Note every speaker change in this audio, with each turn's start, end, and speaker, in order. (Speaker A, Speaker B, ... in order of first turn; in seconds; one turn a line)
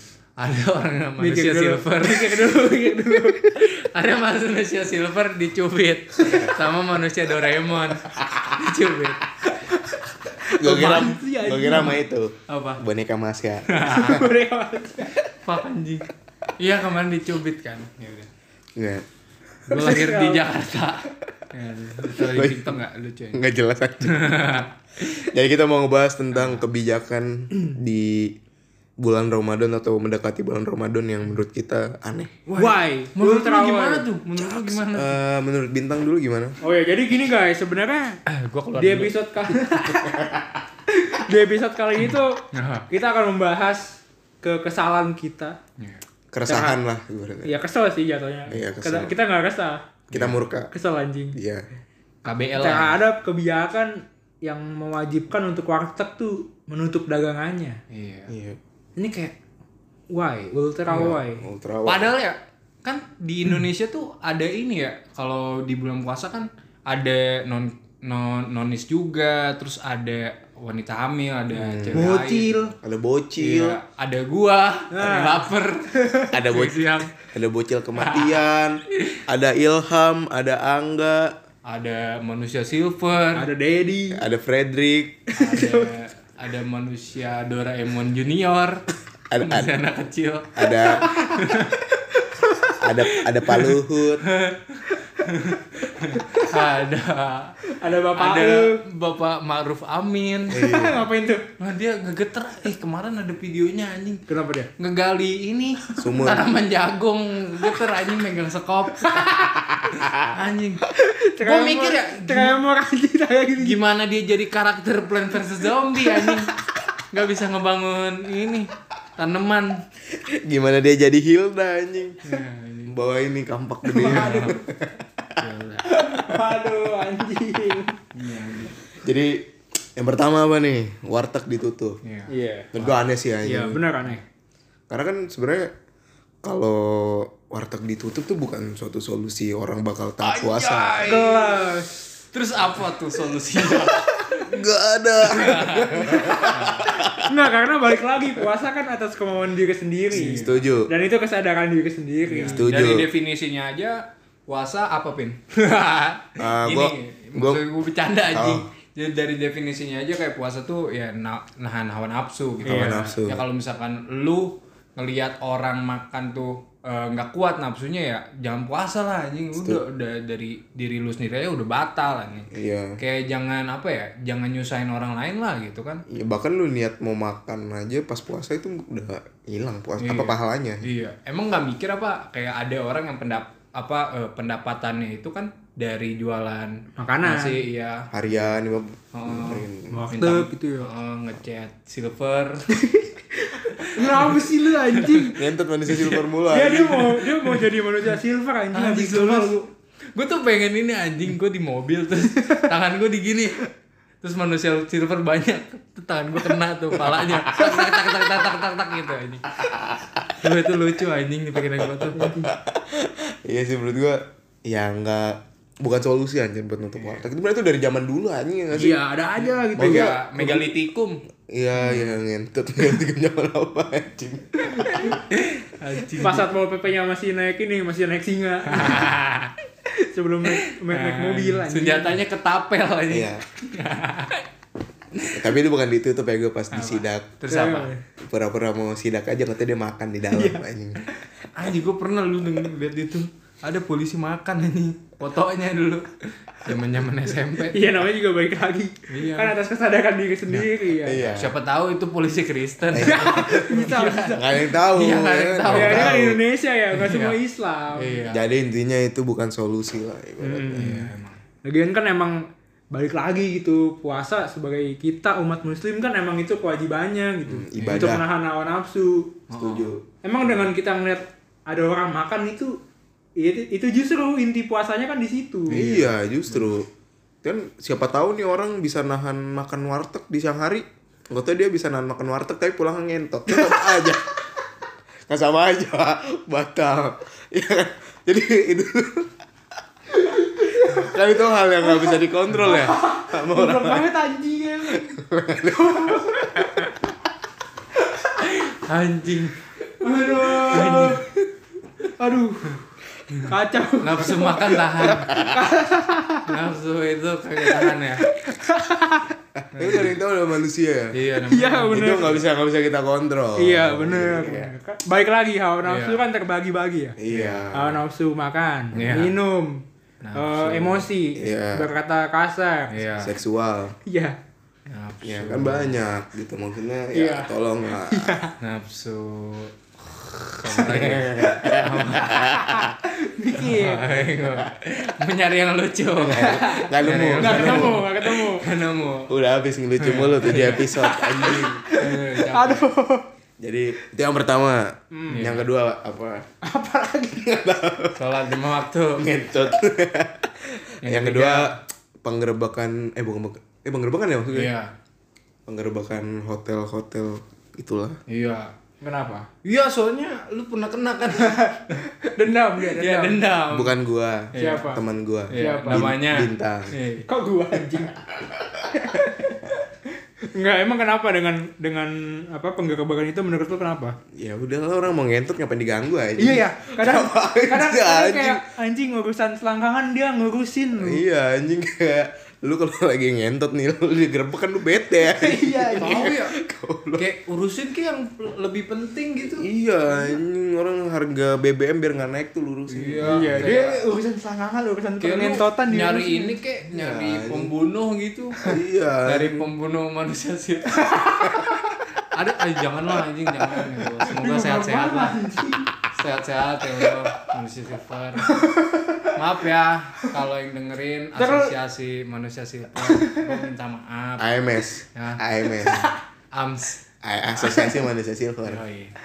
Speaker A: 0.4-9.3
Speaker B: 1.2-3.6
Speaker B: 10.4-12.0
Speaker C: 10.5-14.3
Speaker A: 12.5-12.8
Speaker A: 13.7-14.2
Speaker B: 13.9-15.2
Speaker A: 15.4-18.3
Speaker C: 18.8-19.0
Speaker B: 19.7-20.4
Speaker A: 19.7-23.4
Speaker C: 22.2-22.8
Speaker C: 23.3-24.4
Speaker A: 24.0-25.3
Speaker C: 25.1-28.3
Speaker A: 26.3-26.6
Speaker C: 29.0-32.4
Speaker B: 32.5-34.0
Speaker A: 32.5-35.2
Speaker C: 34.4-36.6
Speaker B: 36.6-38.2
Speaker A: 38.3-39.1
Speaker B: 38.7-40.2
Speaker B: 40.9-45.6
Speaker A: 42.0-42.9
Speaker C: 46.3-47.6
Speaker B: 46.5-46.8
Speaker B: 47.4-49.8
Speaker C: 48.5-49.1
Speaker C: 50.1-50.7
Speaker A: 50.1-50.4
Speaker B: 50.7-51.4
Speaker C: 51.3-51.6
Speaker A: 52.2-53.0
Speaker B: 52.5-57.8
Speaker A: 57.9-58.3
Speaker C: 58.3-58.6
Speaker B: 59.0-59.3
Speaker B: 60.1-61.4
Speaker C: 60.9-62.1
Speaker A: 61.8-72.5
Speaker C: 71.5-72.1
Speaker B: 71.9-72.7
Speaker C: 72.8-73.8
Speaker A: 73.4-77.1
Speaker B: 74.9-76.3
Speaker C: 76.3-81.3
Speaker A: 78.0-78.4
Speaker A: 81.6-83.5
Speaker B: 83.3-84.2
Speaker C: 84.1-85.2
Speaker B: 85.4-85.9
Speaker A: 85.4-88.8
Speaker C: 89.3-89.7
Speaker A: 89.4-91.8
Speaker C: 90.5-91.4
Speaker C: 92.8-94.2
Speaker A: 93.0-97.6
Speaker B: 96.2-96.5
Speaker B: 97.7-98.8
Speaker A: 98.1-100.7
Speaker C: 100.5-101.0
Speaker B: 100.5-101.5
Speaker A: 101.6-104.2
Speaker B: 104.3-104.7
Speaker A: 104.8-110.8
Speaker C: 106.0-106.5
Speaker B: 109.2-109.7
Speaker B: 110.9-113.8
Speaker A: 111.4-112.6
Speaker A: 113.6-119.8
Speaker C: 120.1-122.3
Speaker A: 122.2-123.0
Speaker C: 122.9-125.5
Speaker A: 123.9-124.6
Speaker B: 123.9-124.5
Speaker A: 125.4-125.9
Speaker B: 125.8-128.0
Speaker C: 126.1-126.7
Speaker A: 128.1-128.7
Speaker C: 128.9-129.4
Speaker C: 130.0-132.0
Speaker A: 132.0-133.1
Speaker B: 132.3-132.7
Speaker C: 132.7-133.9
Speaker B: 133.4-134.2
Speaker C: 134.9-135.7
Speaker C: 136.4-141.3
Speaker A: 140.2-144.6
Speaker B: 141.0-141.9
Speaker C: 143.7-147.4
Speaker A: 145.2-146.9
Speaker B: 147.2-152.6
Speaker A: 150.1-150.6
Speaker C: 150.1-150.9
Speaker A: 152.3-176.0
Speaker C: 152.5-153.1
Speaker C: 156.4-157.6
Speaker C: 158.3-158.6
Speaker C: 162.6-163.4
Speaker B: 162.7-163.0
Speaker C: 169.5-169.8
Speaker C: 172.5-173.0
Speaker C: 176.1-180.9
Speaker A: 180.0-188.1
Speaker B: 187.0-187.6
Speaker C: 188.1-190.1
Speaker A: 189.1-192.7
Speaker B: 189.9-190.9
Speaker B: 192.7-195.4
Speaker A: 193.8-194.4
Speaker A: 194.9-195.3
Speaker C: 195.3-197.1
Speaker A: 195.9-196.2
Speaker B: 196.5-199.6
Speaker A: 197.0-197.7
Speaker A: 198.7-199.6
Speaker A: 200.1-203.7
Speaker B: 202.4-202.7
Speaker A: 204.2-209.5
Speaker C: 207.0-207.9
Speaker C: 209.6-210.1
Speaker A: 210.3-212.3
Speaker C: 211.8-219.0
Speaker B: 212.2-212.5
Speaker A: 217.0-217.2
Speaker B: 218.7-220.6
Speaker A: 219.3-221.2
Speaker C: 219.7-220.2
Speaker C: 221.4-225.2
Speaker A: 221.8-222.2
Speaker A: 224.9-226.5
Speaker B: 226.2-229.1
Speaker A: 228.7-229.5
Speaker B: 229.9-232.2
Speaker A: 230.4-234.5
Speaker C: 233.1-233.4
Speaker A: 235.1-235.5
Speaker C: 235.3-237.4
Speaker A: 236.7-237.9
Speaker B: 237.5-238.0
Speaker C: 238.2-241.0
Speaker B: 240.3-240.6
Speaker A: 241.5-248.0
Speaker B: 247.7-251.2
Speaker A: 249.1-249.5
Speaker C: 251.0-251.5
Speaker A: 251.2-256.4
Speaker C: 252.9-256.4
Speaker B: 253.0-254.7
Speaker B: 255.7-258.3
Speaker A: 256.9-257.4
Speaker A: 257.9-258.5
Speaker C: 258.3-261.0
Speaker B: 260.4-261.1
Speaker A: 260.7-261.4
Speaker B: 261.6-262.4
Speaker B: 262.9-269.4
Speaker C: 267.4-268.2
Speaker A: 267.8-268.2
Speaker A: 269.5-269.9
Speaker C: 269.5-270.7
Speaker B: 270.2-272.8
Speaker B: 273.4-275.8
Speaker A: 275.6-276.7
Speaker C: 275.7-276.9
Speaker C: 277.4-284.2
Speaker B: 283.5-284.1
Speaker C: 285.3-289.3
Speaker B: 290.5-291.0
Speaker C: 290.8-294.1
Speaker B: 291.8-295.2
Speaker C: 294.9-296.8
Speaker B: 295.8-296.6
Speaker A: 298.3-301.2
Speaker B: 300.0-301.3
Speaker B: 302.0-302.8
Speaker A: 303.3-305.3
Speaker B: 303.4-306.5
Speaker C: 305.0-305.6
Speaker A: 306.4-308.3
Speaker B: 307.6-309.3
Speaker C: 309.7-311.2
Speaker A: 309.7-310.2
Speaker A: 311.1-312.4
Speaker B: 311.4-312.4
Speaker C: 311.9-314.7
Speaker B: 313.6-317.2
Speaker A: 315.8-316.2
Speaker C: 317.2-318.0
Speaker A: 317.3-317.7
Speaker B: 317.7-319.8
Speaker A: 318.9-319.4
Speaker A: 320.2-321.1
Speaker B: 320.3-322.9
Speaker C: 321.3-321.9
Speaker A: 322.9-323.4
Speaker C: 323.2-324.0
Speaker B: 324.1-324.4
Speaker A: 324.9-326.0
Speaker C: 325.2-328.4
Speaker B: 327.1-328.5
Speaker A: 328.6-332.5
Speaker B: 330.7-331.0
Speaker C: 330.8-332.9
Speaker B: 332.6-334.3
Speaker A: 333.5-339.3
Speaker C: 336.2-338.0
Speaker B: 336.3-338.7
Speaker C: 339.3-341.8
Speaker A: 340.0-340.9
Speaker B: 340.8-343.3
Speaker A: 341.9-342.9
Speaker C: 343.6-346.4
Speaker B: 345.1-345.5
Speaker A: 345.3-345.7
Speaker B: 346.6-347.6
Speaker C: 347.4-348.2
Speaker A: 348.1-349.2
Speaker C: 349.2-354.7
Speaker A: 351.0-351.7
Speaker A: 354.5-354.9
Speaker C: 355.7-358.2
Speaker A: 358.3-358.7
Speaker B: 359.0-359.5
Speaker A: 359.6-362.1
Speaker B: 362.2-363.4
Speaker A: 362.8-363.9
Speaker C: 363.7-366.9
Speaker A: 364.5-365.0
Speaker B: 364.5-365.0
Speaker A: 365.5-367.3
Speaker B: 365.5-366.1
Speaker B: 367.2-368.1
Speaker C: 368.3-368.6
Speaker B: 368.9-369.6
Speaker B: 370.5-374.1
Speaker C: 374.4-378.6
Speaker B: 376.4-381.2
Speaker C: 381.0-387.2
Speaker B: 385.2-386.3
Speaker A: 386.0-386.6
Speaker A: 387.2-389.6
Speaker C: 389.5-393.7
Speaker A: 392.9-394.0
Speaker B: 393.2-396.6
Speaker A: 395.2-398.7
Speaker C: 396.9-397.7
Speaker C: 398.6-399.7
Speaker A: 399.2-401.5
Speaker B: 401.0-401.6
Speaker A: 402.1-405.4
Speaker B: 404.3-405.9
Speaker A: 406.1-408.5
Speaker B: 408.4-409.3
Speaker A: 409.3-414.6
Speaker B: 411.4-411.7
Speaker B: 413.0-413.6
Speaker C: 414.4-416.1
Speaker A: 415.1-417.0
Speaker C: 417.2-418.8
Speaker B: 417.7-418.0
Speaker A: 418.6-419.1